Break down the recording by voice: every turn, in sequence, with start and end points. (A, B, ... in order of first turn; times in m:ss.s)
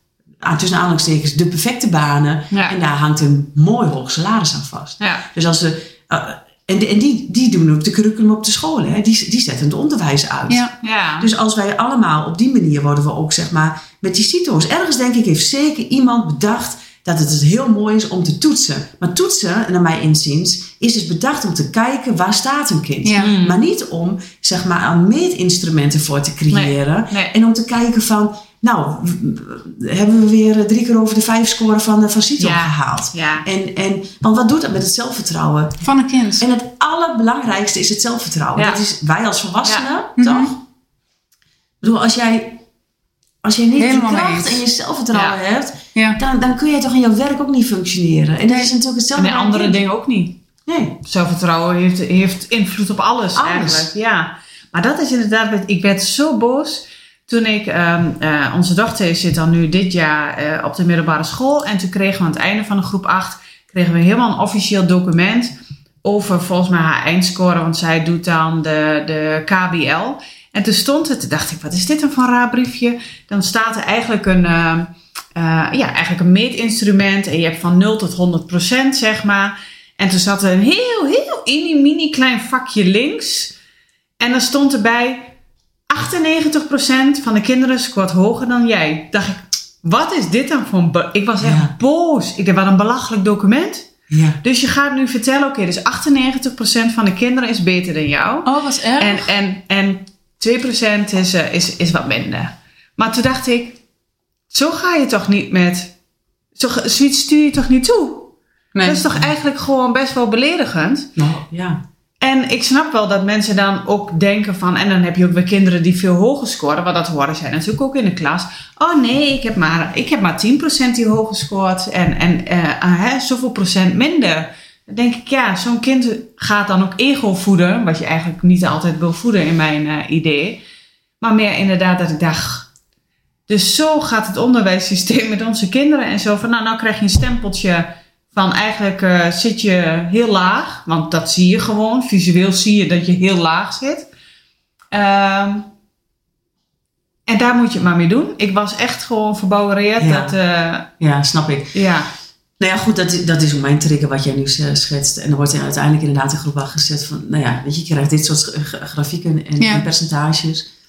0:00.4-0:35.8 A
0:02.5-0:02.8 B
0:05.0-0:05.2 B
0:10.8-0:11.3 B
0:23.0-0:23.3 C
0:23.2-0:23.6 B
0:26.5-0:27.4 B
0:32.4-0:33.4 B
0:35.8-0:36.4 C
0:36.4-0:40.6 A
0:38.6-0:38.8 B
0:40.2-0:40.5 C
0:41.8-0:42.6 A
0:43.4-0:49.8 A
0:43.8-0:44.6 C
0:45.1-0:45.4 B
0:46.0-0:46.2 C
0:48.5-0:48.7 C
0:49.2-0:50.4 B
0:50.7-0:51.0 A
0:51.0-1:23.5 B
0:53.4-0:53.9 A
1:24.2-1:25.3 B
1:25.9-1:33.9 B
1:31.4-1:31.7 A
1:34.1-1:34.4 A
1:34.4-1:43.8 B
1:38.4-1:39.3 C
1:44.5-1:45.9 B
1:46.6-1:51.1 B
1:48.7-1:49.1 C
1:51.2-1:51.8 A
1:52.2-2:10.6 B
2:11.2-2:12.7 B
2:13.5-2:24.1 B
2:24.9-2:25.7 B
2:27.3-2:30.9 B
2:30.0-2:30.4 A
2:31.0-2:31.8 A
2:31.7-2:32.1 B
2:32.6-2:40.7 A
2:39.6-2:39.9 C